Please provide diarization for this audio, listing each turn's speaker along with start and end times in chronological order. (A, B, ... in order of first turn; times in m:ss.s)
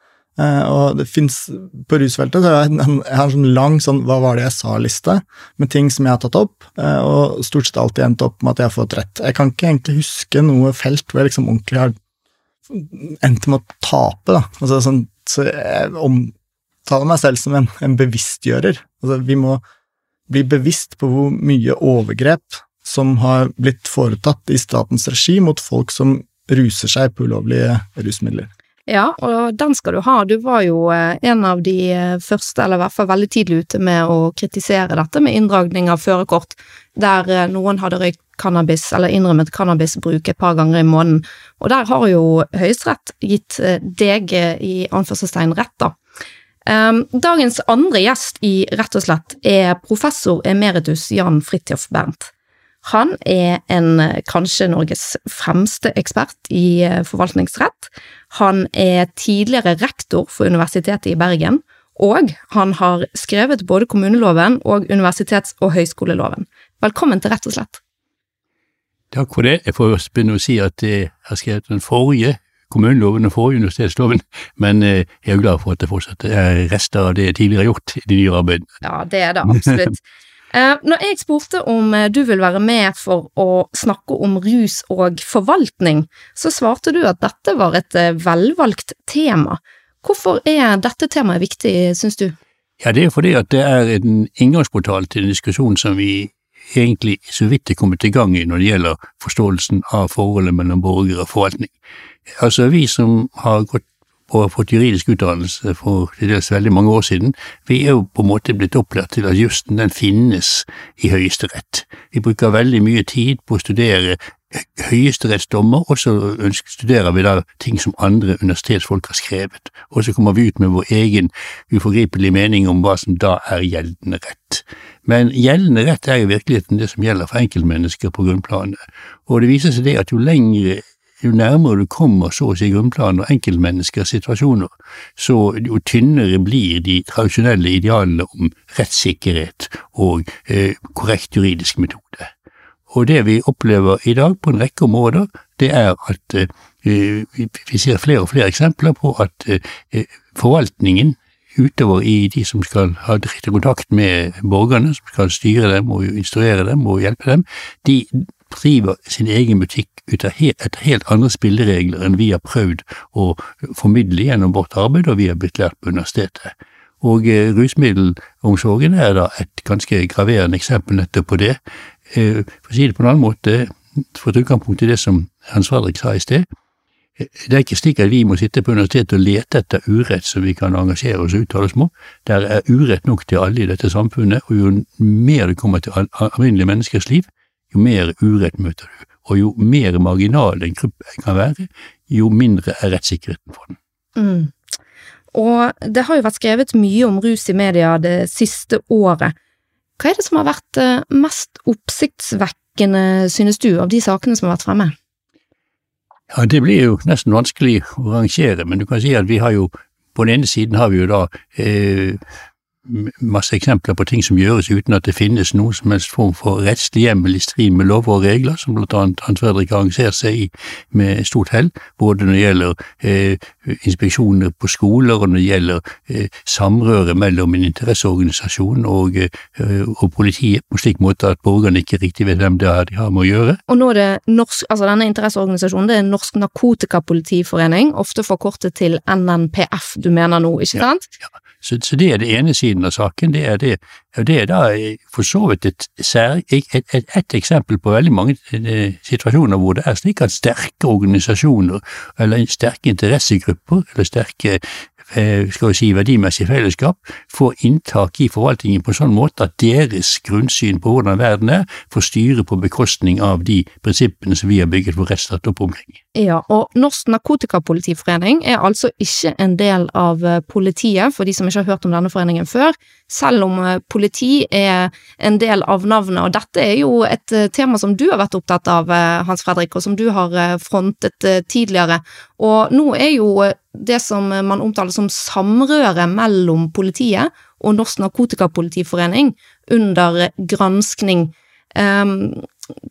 0:00.4-0:11.9 A
0:12.7-0:16.3 A
0:16.8-0:19.6 A
0:20.3-0:28.5 A
0:28.9-0:46.0 B
0:46.6-0:52.3 B
0:52.8-1:07.8 B
1:09.1-1:18.7 C
1:18.8-1:20.0 B
1:19.5-1:19.8 C
1:20.5-1:32.4 B
1:32.8-1:41.7 C
1:42.4-2:22.3 C
2:22.9-2:51.6 C
2:52.1-2:56.4 C
2:57.2-3:13.8 C
3:14.2-3:14.5 B
3:15.3-3:19.3 B
3:20.0-3:24.9 B
3:26.3-3:32.2 C
3:32.8-3:53.6 C
3:53.7-4:01.0 B
4:01.6-4:26.0 C
4:26.1-4:52.4 B